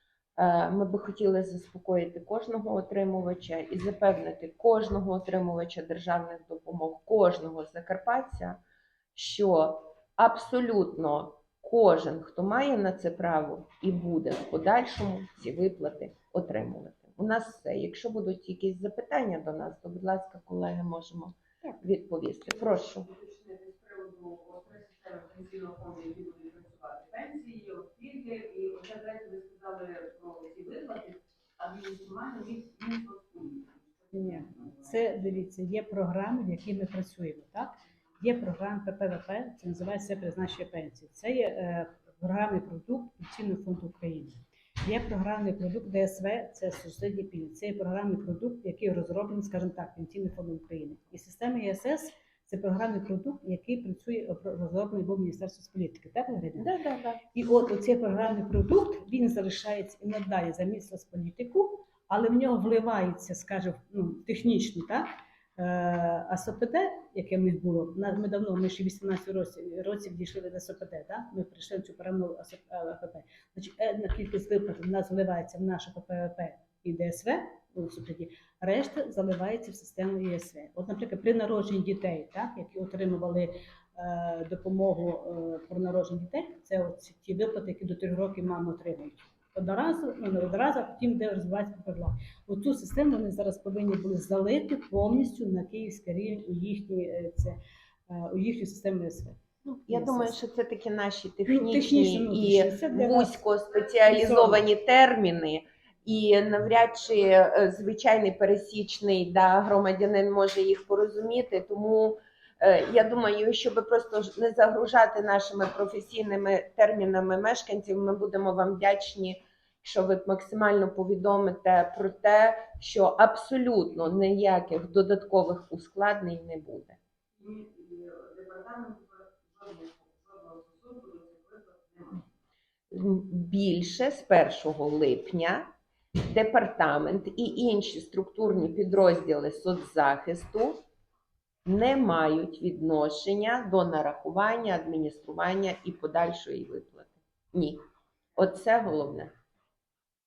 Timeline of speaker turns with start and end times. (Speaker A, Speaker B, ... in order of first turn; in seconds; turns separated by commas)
Speaker A: 0.4-8.6, Speaker A: 9.2-23.1, Speaker B: 23.1-34.8, Speaker C: 34.1-56.7, Speaker A: 56.6-57.2, Speaker C: 57.3-97.6, Speaker C: 98.1-100.4, Speaker A: 99.7-127.0, Speaker C: 101.5-103.4, Speaker C: 104.0-104.6, Speaker B: 127.4-132.2, Speaker A: 132.9-135.7, Speaker A: 136.2-140.8, Speaker A: 141.7-147.8, Speaker A: 148.4-149.3